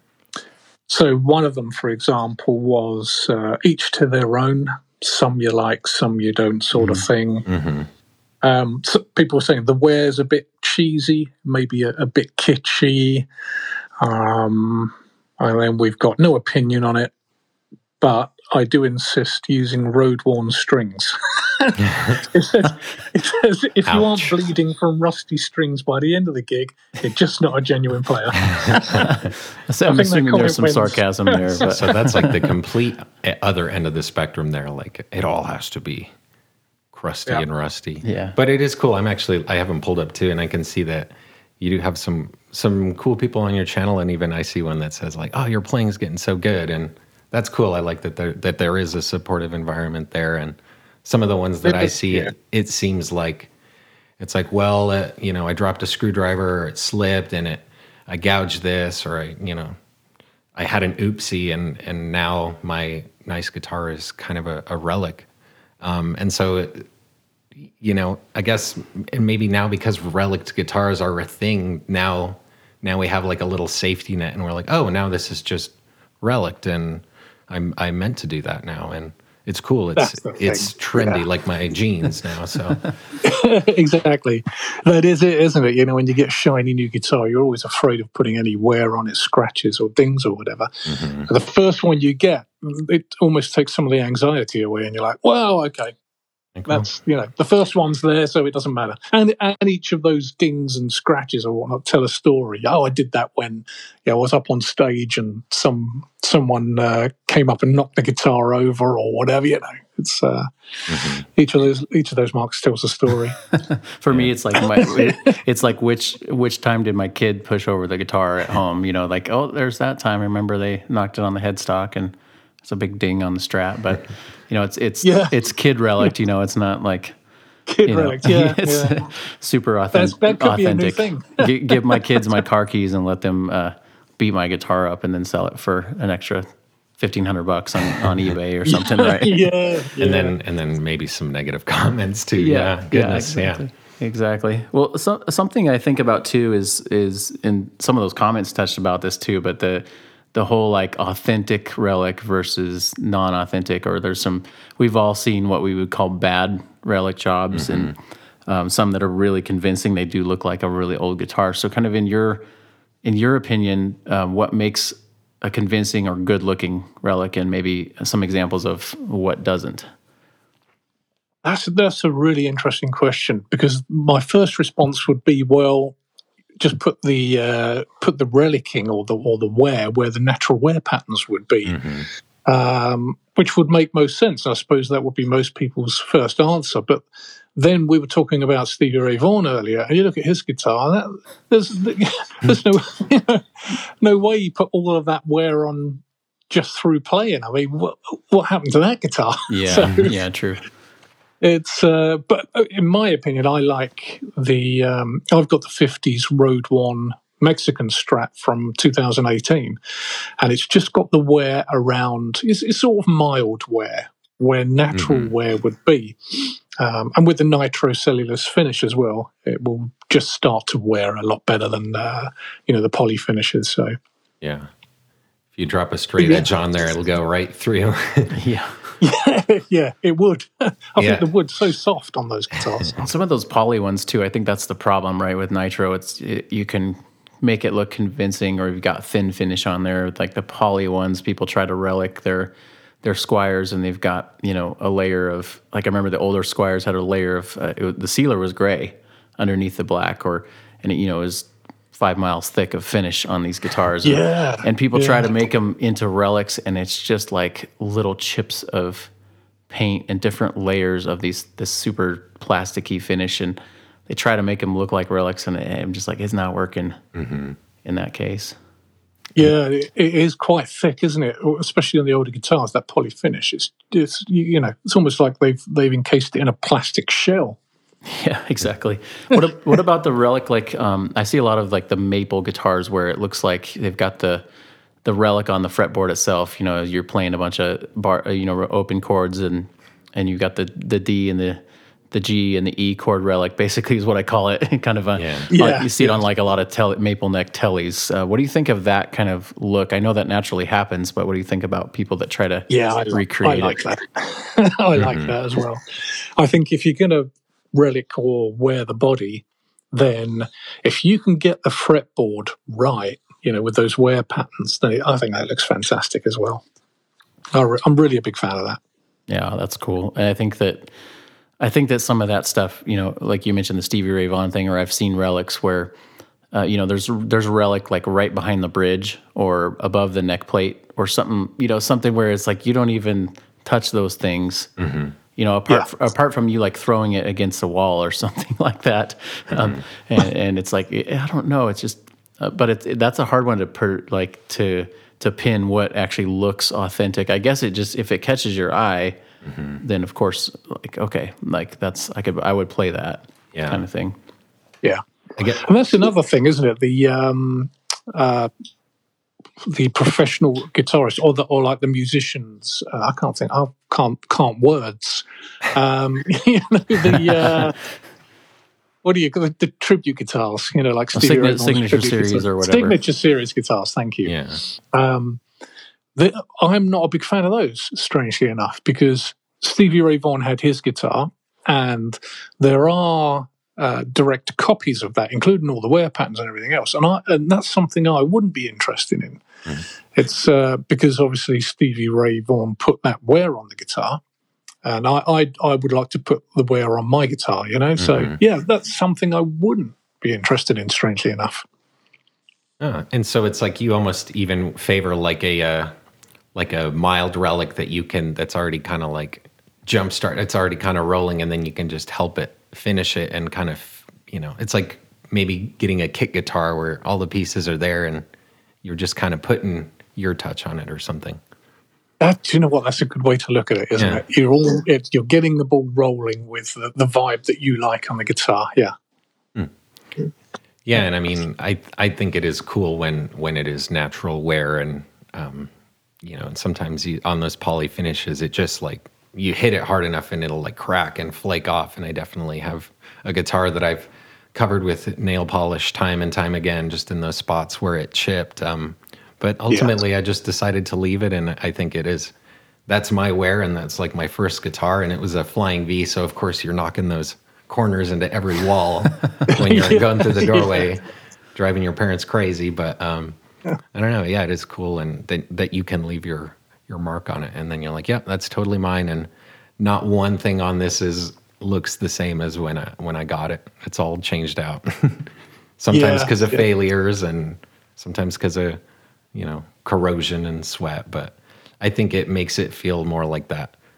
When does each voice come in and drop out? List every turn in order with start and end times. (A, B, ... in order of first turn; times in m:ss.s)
0:00.9-0:07.4 A
0:06.7-0:07.9 B
0:08.4-0:13.3 A
0:14.0-0:17.1 A
0:18.0-0:29.1 A
0:21.8-0:22.1 B
0:23.8-0:24.4 B
0:28.4-0:29.0 B
0:28.9-0:32.4 C
0:29.9-0:31.7 A
0:31.6-0:36.1 B
0:36.9-0:53.5 B
0:38.0-0:38.4 C
0:51.6-0:52.3 A
0:54.2-0:59.7 B
1:00.5-1:05.3 B
1:05.8-1:06.8 B
1:07.6-1:22.8 B
1:20.0-1:21.2 A
1:23.2-1:35.9 A
1:30.9-1:31.3 B
1:36.6-1:36.9 B
1:36.6-1:53.4 A
1:50.9-1:51.2 B
1:53.5-2:07.2 C
1:54.6-1:55.3 A
2:05.0-2:05.4 A
2:07.7-2:09.1 A
2:07.8-2:16.5 C
2:09.9-2:12.2 A
2:17.0-2:19.4 C
2:18.7-2:20.3 A
2:20.0-2:23.6 B
2:22.4-2:42.4 C
2:37.5-2:37.9 B
2:43.0-2:49.9 C
2:51.4-2:56.0 A
2:56.6-3:07.0 A
3:01.6-3:02.1 B
3:07.6-3:20.1 A
3:19.5-3:20.6 C
3:21.4-3:29.8 A
3:30.4-3:43.9 A
3:34.9-3:35.3 B
3:44.4-3:44.7 B
3:45.6-3:48.4 B
3:46.2-3:46.5 A
3:48.3-3:48.8 C
3:49.0-3:52.9 A
3:51.0-3:51.2 B
3:53.0-4:19.1 C
4:14.0-4:15.3 A
4:19.7-4:27.0 C
4:27.1-4:27.6 B
4:27.8-4:28.6 C
4:29.4-4:37.6 A
4:38.0-4:44.4 C
4:45.0-5:03.8 C
4:55.2-4:55.5 B
4:55.5-4:56.2 A
5:02.7-5:16.6 A
5:05.0-5:05.3 B
5:17.5-5:18.8 A
5:19.3-5:20.9 C
5:21.6-5:25.9 C
5:26.5-5:34.7 C
5:34.8-5:35.2 B
5:35.3-5:49.2 C
5:39.5-5:39.8 B
5:49.4-5:49.8 B
5:49.8-5:54.2 C
5:53.5-5:53.8 B
5:54.8-5:58.5 A
5:55.4-5:55.6 B
5:59.6-6:07.7 A
6:07.4-6:07.6 C
6:09.0-6:15.4 A
6:11.1-6:13.0 C
6:14.2-6:14.6 B
6:16.2-6:29.4 A
6:30.1-6:34.2 A
6:34.8-6:41.6 A
6:38.0-6:38.4 B
6:42.8-6:45.9 B
6:46.5-6:58.2 B
6:58.8-7:01.4 B
7:02.2-7:08.9 A
7:04.0-7:04.2 B
7:10.8-7:32.3 B
7:29.7-7:30.0 A
7:32.9-7:41.0 B
7:39.4-7:40.9 A
7:41.5-7:43.4 B
7:43.9-7:49.3 B
7:49.8-7:58.8 B
7:55.9-7:56.6 A
7:59.3-8:03.7 B